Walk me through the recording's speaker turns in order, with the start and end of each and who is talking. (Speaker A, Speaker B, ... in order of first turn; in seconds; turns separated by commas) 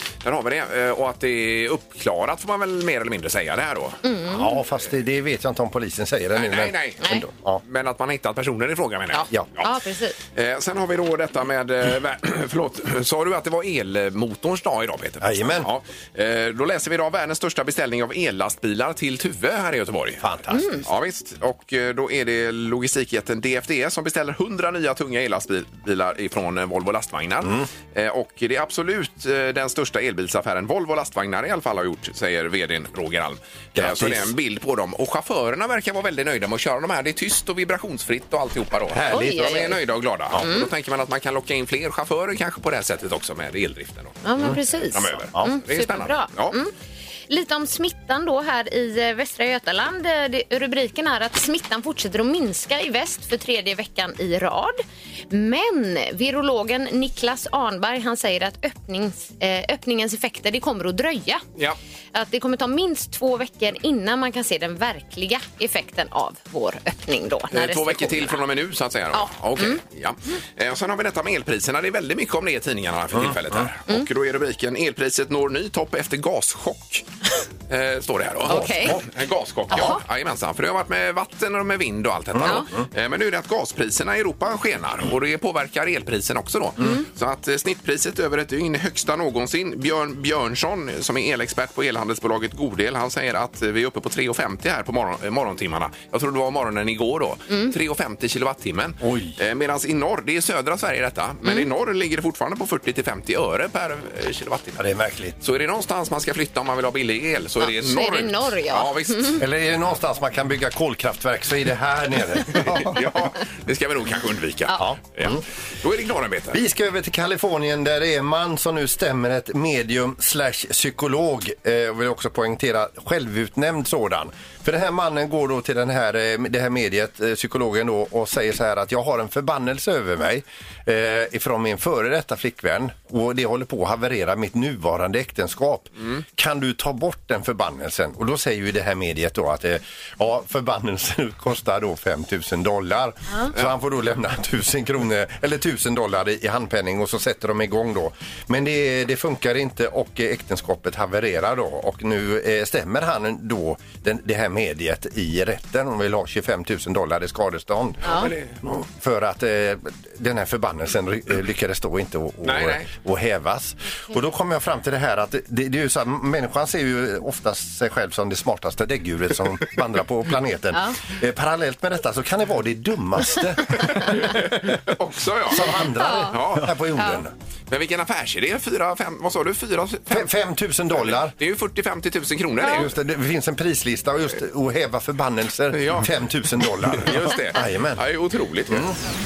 Speaker A: 0.2-4.0, Speaker B: 4.0-4.5, Speaker C: 4.3-7.6, Speaker A: 6.3-9.8, Speaker B: 9.1-10.2, Speaker A: 10.3-20.2, Speaker C: 15.2-15.7, Speaker C: 20.2-20.8, Speaker B: 20.5-20.8, Speaker A: 20.9-44.2, Speaker C: 27.4-27.7, Speaker C: 33.8-34.3, Speaker C: 38.9-39.7, Speaker B: 39.1-39.8, Speaker B: 40.4-40.7, Speaker B: 44.2-46.7, Speaker A: 44.9-46.6, Speaker B: 47.3-61.4, Speaker B: 62.1-68.4, Speaker A: 67.5-77.0, Speaker B: 69.1-69.8, Speaker C: 73.1-73.7, Speaker A: 77.7-104.8, Speaker B: 78.5-79.0, Speaker C: 78.5-79.0, Speaker B: 79.7-80.0, Speaker C: 82.3-82.8, Speaker C: 99.0-99.4, Speaker C: 104.8-105.4, Speaker A: 105.4-109.4, Speaker B: 107.6-109.4, Speaker C: 109.4-112.9, Speaker A: 112.5-116.6, Speaker C: 114.8-115.4, Speaker C: 116.5-174.4, Speaker A: 158.1-158.5, Speaker A: 162.4-162.9, Speaker A: 173.8-175.7, Speaker C: 175.5-177.3, Speaker B: 175.9-176.4, Speaker A: 176.3-176.7, Speaker B: 177.0-177.2, Speaker A: 177.7-180.3, Speaker C: 180.1-181.3, Speaker A: 181.0-182.9, Speaker C: 182.7-188.0, Speaker A: 185.7-186.1, Speaker A: 186.9-188.9, Speaker C: 188.7-189.0